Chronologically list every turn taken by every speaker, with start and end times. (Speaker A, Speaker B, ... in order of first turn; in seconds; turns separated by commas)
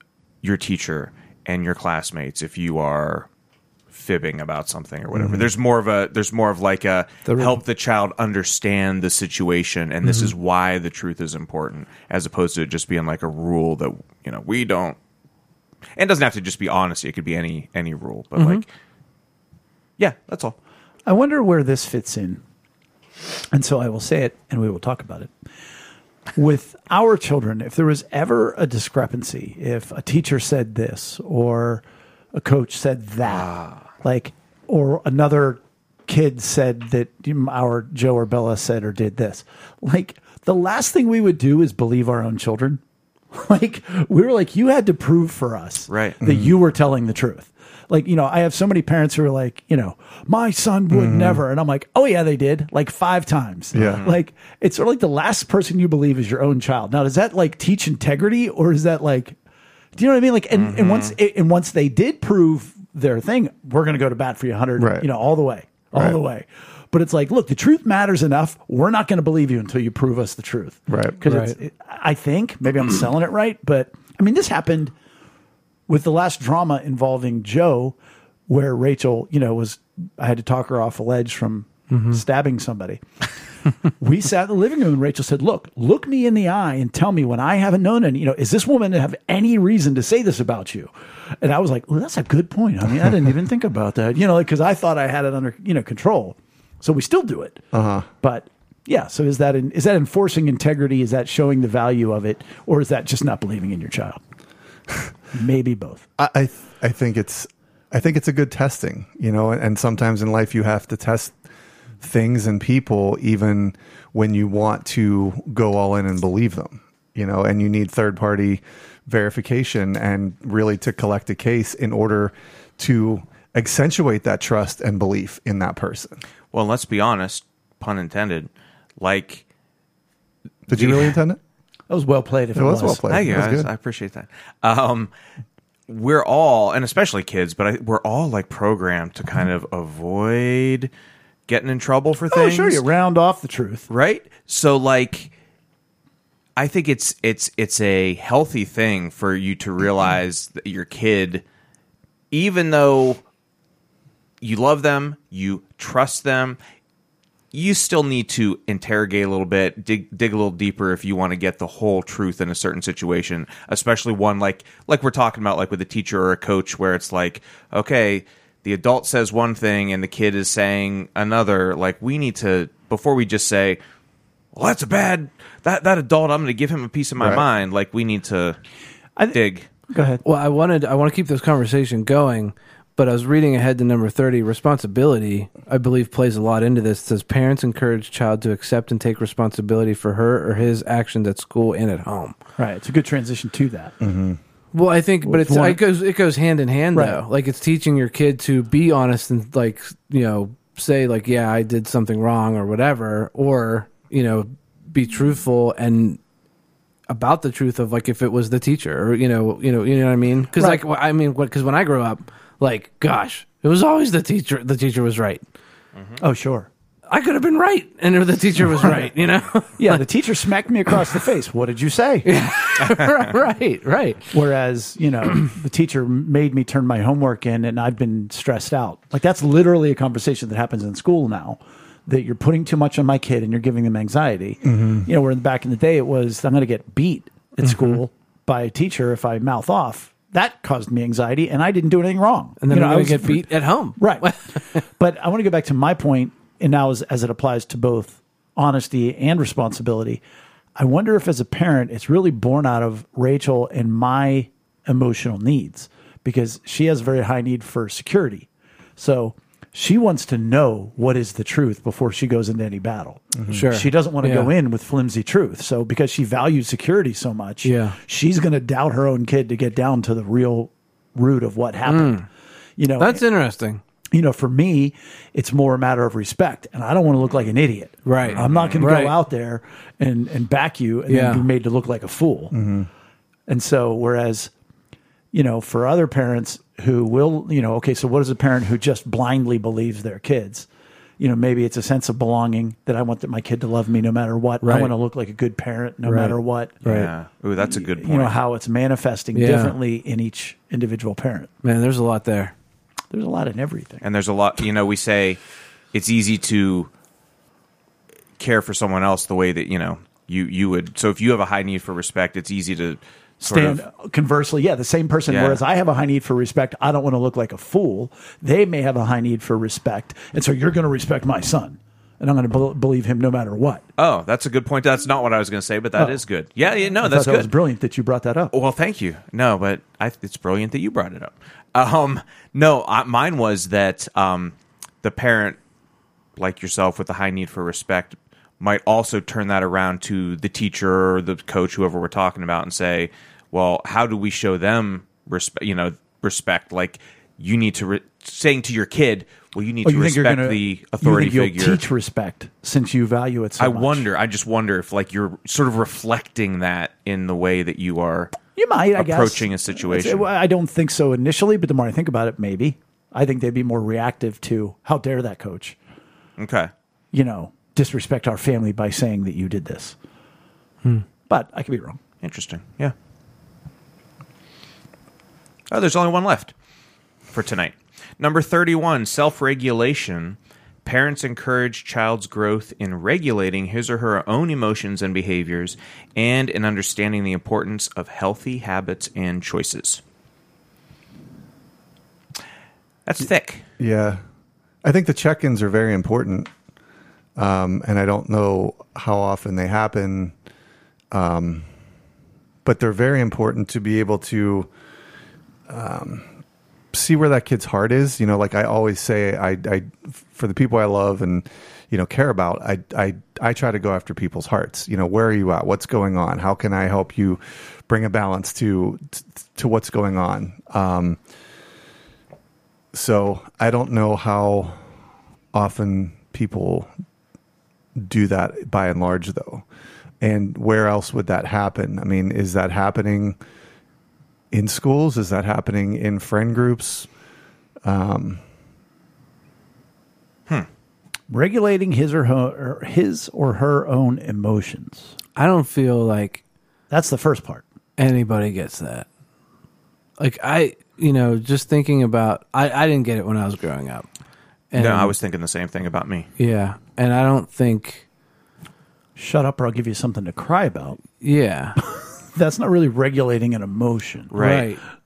Speaker A: 0.4-3.3, Speaker A: 3.9-15.0, Speaker B: 5.2-5.4, Speaker C: 7.3-7.5, Speaker A: 15.9-18.6, Speaker D: 18.4-18.6, Speaker A: 20.0-20.6, Speaker C: 21.1-22.4, Speaker C: 23.5-25.3, Speaker C: 26.3-42.8, Speaker A: 33.2-33.8, Speaker C: 43.3-59.4, Speaker A: 45.9-46.2, Speaker B: 46.2-46.5, Speaker B: 50.9-51.4, Speaker B: 53.7-54.0, Speaker A: 53.8-54.2, Speaker C: 59.9-74.9, Speaker A: 60.5-61.1, Speaker B: 64.8-65.1, Speaker B: 65.9-66.2, Speaker B: 70.9-71.2, Speaker D: 71.2-71.5, Speaker C: 75.9-77.9, Speaker C: 78.5-83.0, Speaker D: 81.9-82.2, Speaker C: 83.9-97.6, Speaker B: 97.7-98.1, Speaker C: 98.2-104.2, Speaker C: 105.3-106.0, Speaker B: 106.2-111.3, Speaker B: 112.0-126.2, Speaker A: 126.5-129.4, Speaker B: 130.7-131.4, Speaker A: 130.7-131.2, Speaker C: 131.9-133.0, Speaker B: 132.5-133.7, Speaker A: 133.1-135.1, Speaker A: 135.9-140.9, Speaker A: 141.5-142.8, Speaker C: 142.3-143.9, Speaker A: 143.9-145.3, Speaker A: 146.6-151.4, Speaker A: 152.3-153.2, Speaker A: 154.4-156.6, Speaker A: 157.5-173.8, Speaker A: 174.5-178.6, Speaker A: 179.3-179.7, Speaker C: 179.9-180.2, Speaker D: 180.2-192.3, Speaker C: 192.6-193.9, Speaker B: 194.0-194.4, Speaker D: 194.7-206.2, Speaker C: 195.2-195.8, Speaker C: 196.9-197.2, Speaker D: 207.1-215.4, Speaker C: 210.6-210.8, Speaker C: 216.2-216.7, Speaker D: 217.1-220.0, Speaker C: 219.8-222.3, Speaker D: 222.2-224.3, Speaker C: 224.3-250.2, Speaker B: 234.7-235.1, Speaker D: 237.6-238.0, Speaker D: 242.6-244.8, Speaker C: 250.8-272.2, Speaker D: 263.5-264.5, Speaker D: 267.6-267.9, Speaker D: 271.9-272.2, Speaker C: 272.8-273.2, Speaker D: 273.0-273.8, Speaker C: 274.1-282.5, Speaker D: 278.0-279.2, Speaker A: 278.2-278.9, Speaker D: 281.1-281.4, Speaker B: 282.5-282.9, Speaker C: 283.5-284.5, Speaker C: 285.3-290.7, Speaker C: 291.2-296.8, Speaker D: 294.6-294.9, Speaker D: 296.0-297.1, Speaker A: 296.8-298.4, Speaker C: 297.6-301.5, Speaker D: 299.3-299.8, Speaker D: 301.6-302.5, Speaker C: 303.1-304.0, Speaker A: 304.0-305.4, Speaker A: 305.9-306.9, Speaker A: 308.4-313.8, Speaker C: 313.4-323.8, Speaker A: 315.3-315.6, Speaker A: 324.0-327.5, Speaker C: 327.0-328.5, Speaker A: 328.5-335.6, Speaker A: 336.4-351.8, Speaker C: 349.8-354.1, Speaker A: 353.6-358.4, Speaker C: 358.6-365.8, Speaker A: 358.9-360.3, Speaker A: 366.4-366.7, Speaker C: 367.1-369.9, Speaker C: 371.3-372.0, Speaker A: 372.2-372.9, Speaker A: 375.7-376.5, Speaker A: 377.3-390.0, Speaker A: 393.1-393.6, Speaker B: 393.8-394.2, Speaker B: 394.8-396.5, Speaker B: 397.4-400.3, Speaker B: 401.1-401.6, Speaker B: 402.6-404.7, Speaker B: 405.7-406.3, Speaker B: 406.9-421.2, Speaker B: 422.9-424.8, Speaker B: 425.5-426.9, Speaker B: 428.0-429.6, Speaker B: 430.2-433.4, Speaker B: 434.5-437.1, Speaker B: 437.8-438.4, Speaker C: 441.3-445.1, Speaker D: 445.4-446.4, Speaker C: 446.9-447.6, Speaker D: 448.0-449.1, Speaker D: 450.2-454.1, Speaker D: 454.7-455.1, Speaker A: 454.8-456.3, Speaker D: 456.4-458.0, Speaker C: 459.1-461.0, Speaker D: 461.2-461.8, Speaker C: 462.3-464.3, Speaker A: 464.3-464.7, Speaker D: 464.4-464.8